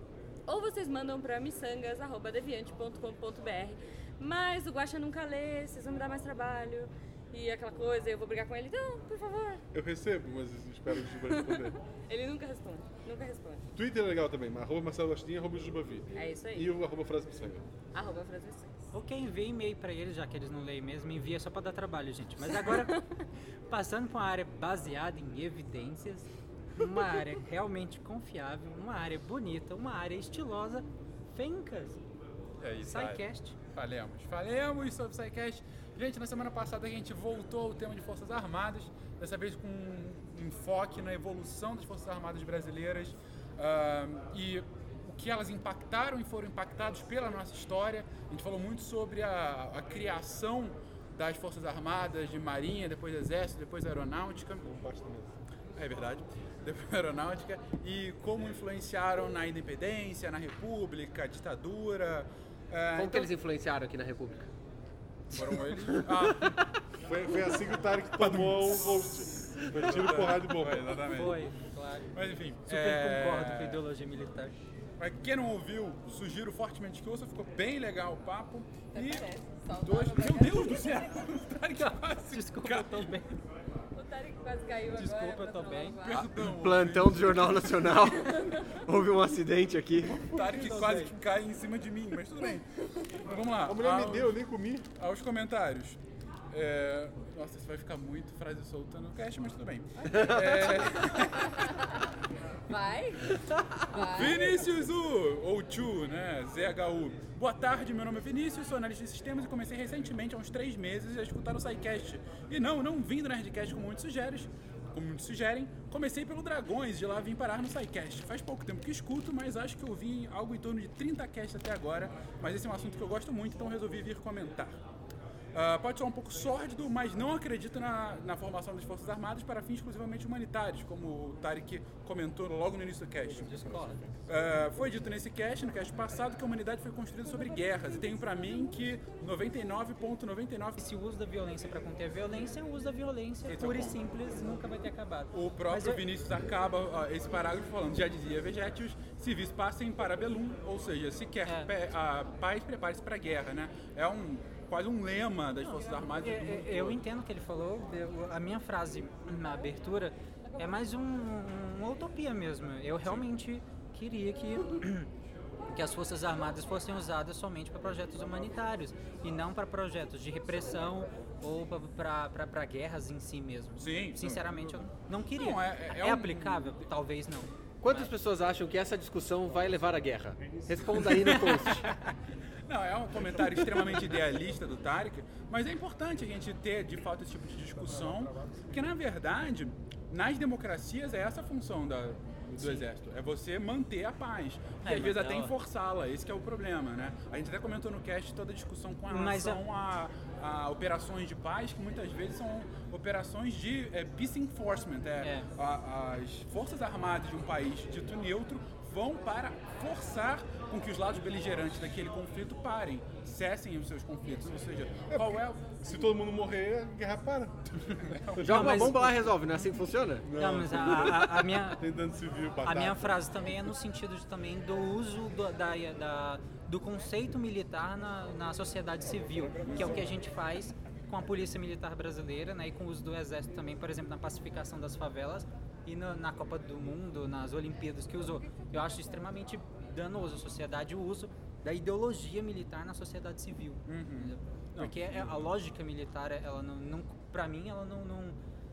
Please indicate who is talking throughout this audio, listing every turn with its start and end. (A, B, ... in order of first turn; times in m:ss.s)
0:00.5-0:09.6 A
0:09.7-0:11.8 B
0:11.2-0:13.6 A
0:13.7-0:17.7 B
0:16.1-0:16.7 A
0:17.9-0:18.8 A
0:18.9-0:23.0 C
0:22.6-0:23.0 A
0:23.7-0:32.0 C
0:32.6-0:54.6 D
0:32.8-0:33.6 C
0:54.6-0:55.3 B
0:55.8-1:03.3 D
1:02.9-1:04.5 E
1:05.3-1:06.6 D
1:05.8-1:06.5 E
1:07.0-1:10.9 B
1:08.2-1:11.5 D
1:11.0-1:12.1 C
1:12.1-1:13.8 D
1:12.6-1:14.5 C
1:15.0-1:23.2 D
1:18.9-1:21.1 A
1:21.8-1:23.3 C
1:23.9-1:26.3 A
1:24.9-1:26.0 C
1:26.0-1:28.0 D
1:26.4-1:30.3 E
1:28.3-1:28.6 A
1:30.1-1:32.7 D
1:30.3-1:31.2 C
1:33.2-1:34.3 D
1:33.6-1:34.9 B
1:35.0-1:36.0 D
1:36.5-1:41.7 D
1:40.1-1:40.4 E
1:41.4-1:41.8 A
1:42.7-1:44.7 A
1:44.0-2:04.8 D
2:05.5-2:20.8 D
2:13.3-2:14.2 B
2:13.4-2:14.0 C
2:17.5-2:19.1 A
2:20.8-2:26.0 C
2:23.5-2:24.0 D
2:25.3-2:37.0 D
2:31.4-2:31.7 C
2:36.1-2:45.1 C
2:40.4-2:40.8 A
2:45.7-2:58.1 C
2:53.8-2:54.6 D
2:55.3-2:56.8 D
2:57.8-3:01.9 E
3:00.4-3:00.9 B
3:01.2-3:02.0 D
3:02.6-3:35.7 D
3:08.1-3:08.7 B
3:12.6-3:12.9 C
3:14.8-3:15.5 C
3:19.1-3:19.6 C
3:25.2-3:25.5 C
3:35.1-3:38.8 B
3:38.0-3:38.9 D
3:38.4-3:40.2 E
3:38.4-3:39.2 C
3:40.2-3:43.2 B
3:40.3-3:41.8 C
3:42.6-4:08.4 C
3:49.6-3:50.2 B
3:49.6-3:50.0 D
3:58.5-3:59.2 A
4:03.8-4:05.5 D